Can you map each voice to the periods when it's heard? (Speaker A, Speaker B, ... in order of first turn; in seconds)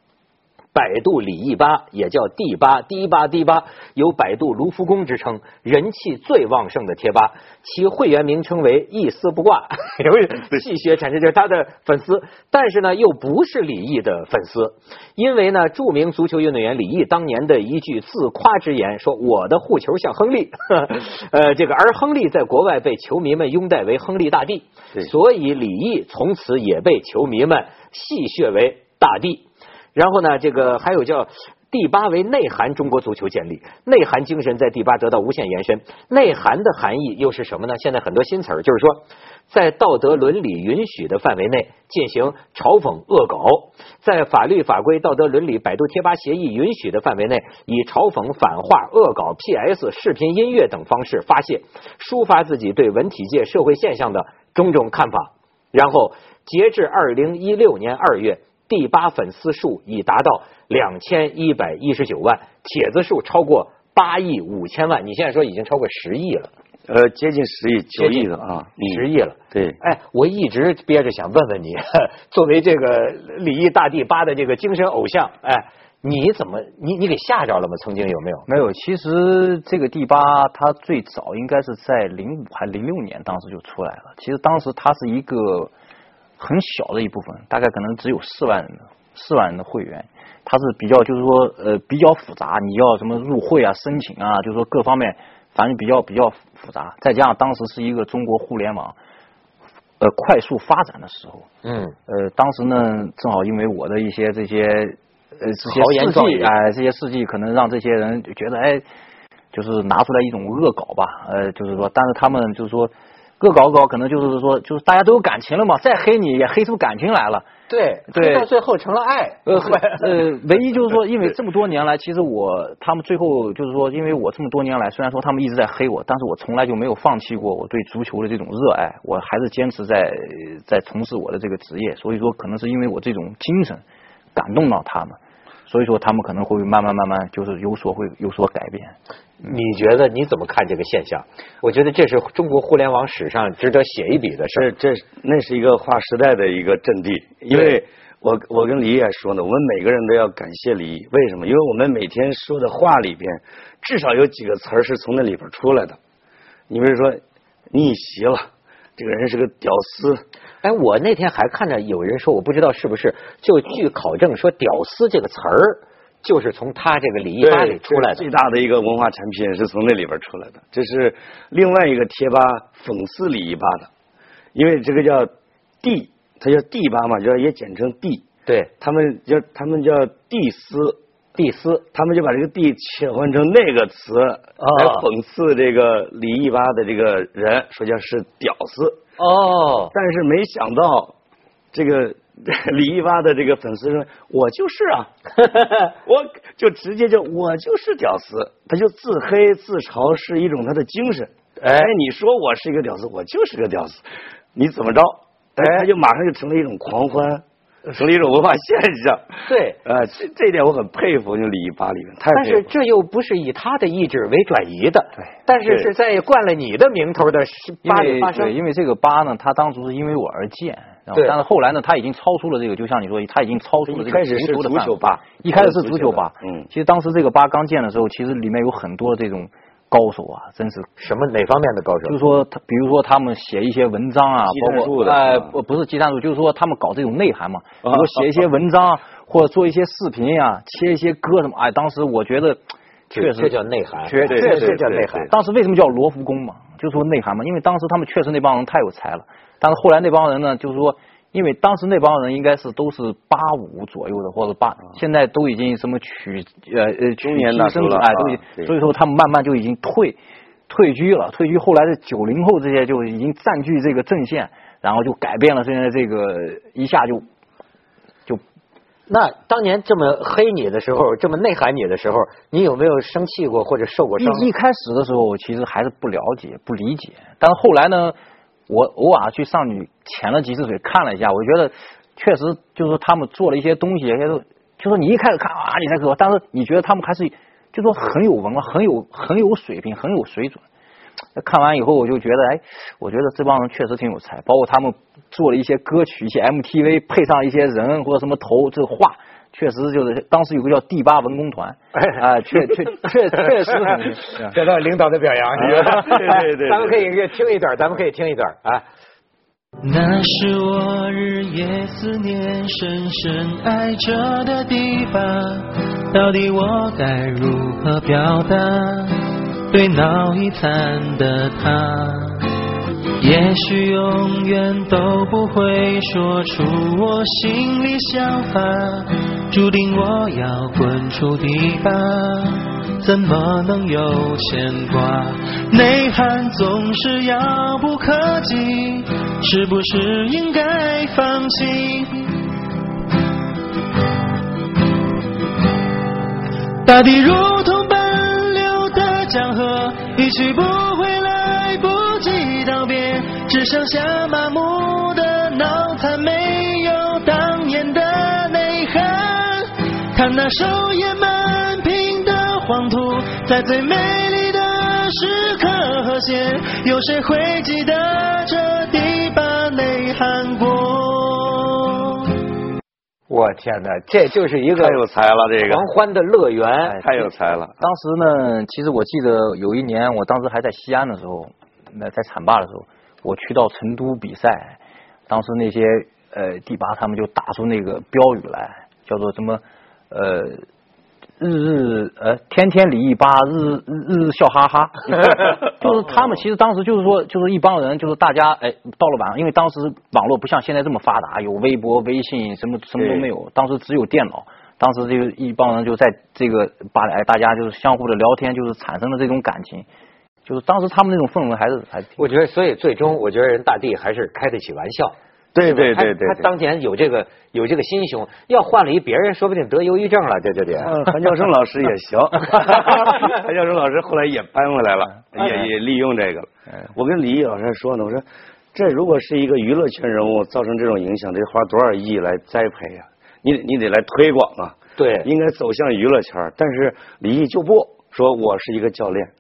Speaker A: 0.7-66.5, 68.0-78.5, 101.6-102.0, 105.6-106.5, 117.7-120.2, 139.4-144.7, 147.5-147.8, 160.6-168.3, 181.4-181.8, 184.6-185.1, 189.2-189.9, 195.4-195.8, 201.6-201.9, 205.6-205.9, 209.5-209.8, 212.3-218.5, 231.0-232.2, 243.1-245.3, 269.1-274.5, 301.9-302.2, 303.4-308.9, 373.3-375.0, 375.6-377.0, 412.2-421.0, 435.0-435.3
Speaker B: 66.9-69.8, 144.5-156.0, 156.7-160.2, 167.4-173.9, 174.6-175.3, 175.8-178.2, 178.8-181.0, 181.9-189.0, 189.9-191.1, 191.7-195.1, 196.0-204.0, 204.6-212.7, 215.6-215.9, 223.9-226.7, 234.4-235.6, 237.8-238.2, 244.2-245.3, 257.2-258.7, 305.6-307.1, 374.8-375.8, 377.0-377.8, 403.0-403.3, 415.5-416.5, 420.8-439.3
Speaker C: 78.5-85.7, 86.4-99.0, 100.0-101.5, 102.1-108.8, 109.5-117.5, 118.1-118.5, 119.5-133.8, 134.3-138.9, 217.8-230.9, 232.1-243.5, 244.1-267.2, 274.2-278.1, 278.7-290.6, 291.4-304.6, 376.9-390.6, 391.4-409.9, 410.5-412.2
Speaker D: 309.8-322.5, 323.2-342.5, 346.9-372.3